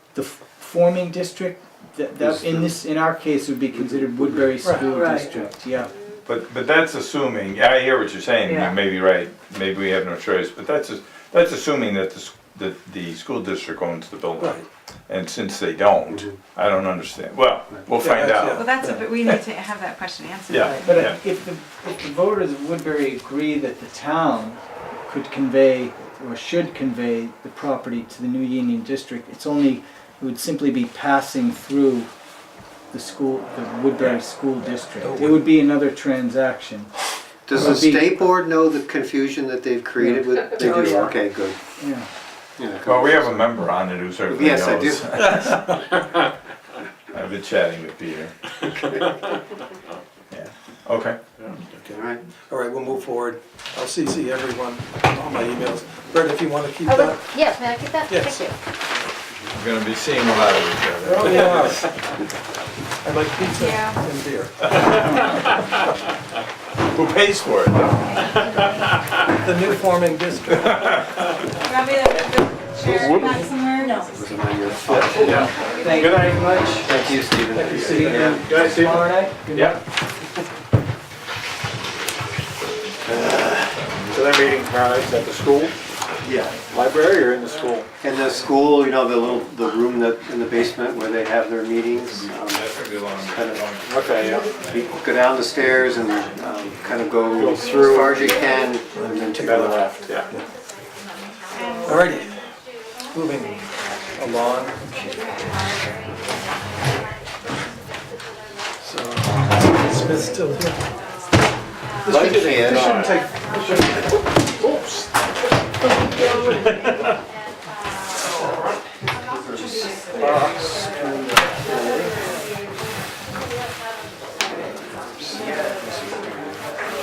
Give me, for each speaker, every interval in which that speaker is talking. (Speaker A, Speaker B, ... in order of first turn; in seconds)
Speaker A: 0.1-5.9, 20.8-32.1, 32.9-36.9, 37.5-38.3, 40.0-41.3, 41.8-42.1, 75.1-79.8, 125.4-125.6
Speaker B: 2.2-2.8, 3.8-4.5, 37.5-41.6, 42.6-43.5, 44.3-45.6, 51.9-52.2, 72.8-75.5, 76.8-78.6, 86.2-86.6, 88.0-99.7, 112.1-113.0, 119.2-122.3, 125.1-126.7
Speaker C: 4.6-4.9, 14.4-14.6, 18.0-19.2, 51.6-57.4, 58.1-58.5, 61.0-62.0, 63.0-65.2, 69.4-70.9, 74.9-75.3, 77.8-78.3, 98.9-100.4, 101.8-102.5, 103.1-105.3, 108.8-110.8, 112.0-114.2
Speaker D: 6.3-19.4, 20.5-21.2, 42.8-45.8, 47.1-48.3, 50.3-51.2, 59.5-61.8, 66.9-68.3, 70.6-71.0, 72.8-73.4, 83.8-84.2, 92.0-95.0, 95.7-96.0
Speaker E: 18.6-20.6, 63.7-64.0, 71.7-73.9
Speaker F: 56.9-58.5, 73.8-74.1
Speaker G: 75.1-76.6, 77.7-79.8, 84.1-85.8, 86.7-87.9, 93.9-94.5, 97.3-98.4, 99.4-100.3, 112.1-113.2, 114.2-115.1, 116.4-117.1, 120.2-120.6